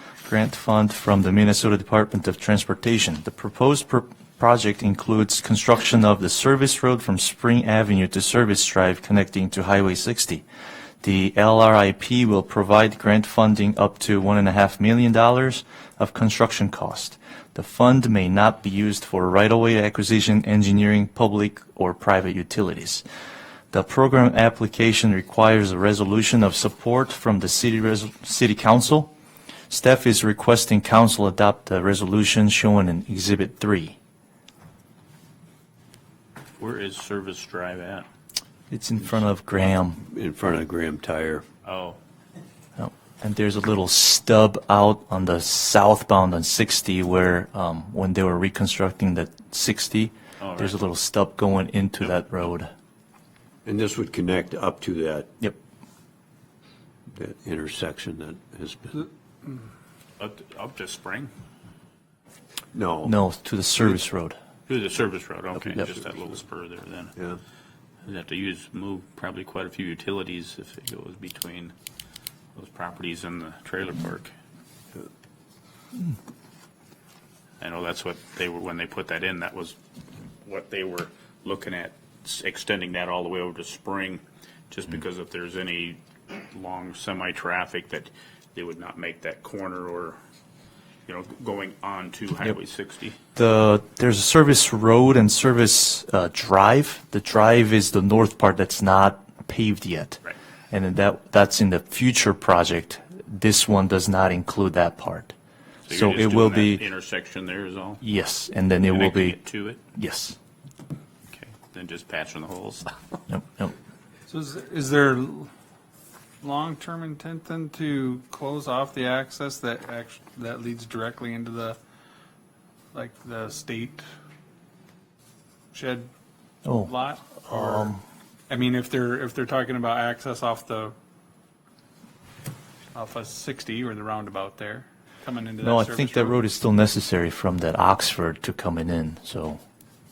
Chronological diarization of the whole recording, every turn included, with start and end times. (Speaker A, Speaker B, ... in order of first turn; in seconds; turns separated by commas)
Speaker A: 0.2-10.4, Speaker A: 11.0-23.0, Speaker A: 23.7-29.1, Speaker A: 29.7-34.0, Speaker B: 36.6-38.1, Speaker A: 38.7-40.0, Speaker C: 40.0-41.4, Speaker B: 41.6-42.0, Speaker A: 42.8-52.7, Speaker B: 50.4-50.8, Speaker C: 53.6-55.3, Speaker C: 57.1-59.1, Speaker B: 60.2-61.3, Speaker C: 62.7-63.1, Speaker A: 63.0-64.4, Speaker B: 64.7-67.1, Speaker B: 68.0-71.7, Speaker B: 72.5-74.3, Speaker B: 77.6-79.8, Speaker B: 80.4-90.2, Speaker B: 91.1-93.2, Speaker A: 93.3-105.3, Speaker B: 105.8-108.0, Speaker A: 105.9-106.8, Speaker A: 108.0-109.4, Speaker B: 108.8-109.8, Speaker A: 109.9-110.4, Speaker B: 111.3-113.2, Speaker A: 113.3-113.7, Speaker D: 114.3-115.5, Speaker D: 116.4-121.8, Speaker D: 122.9-124.0, Speaker D: 125.7-126.1, Speaker A: 126.6-128.0, Speaker D: 126.8-127.9, Speaker D: 128.5-130.9, Speaker D: 132.9-136.4, Speaker A: 135.6-139.6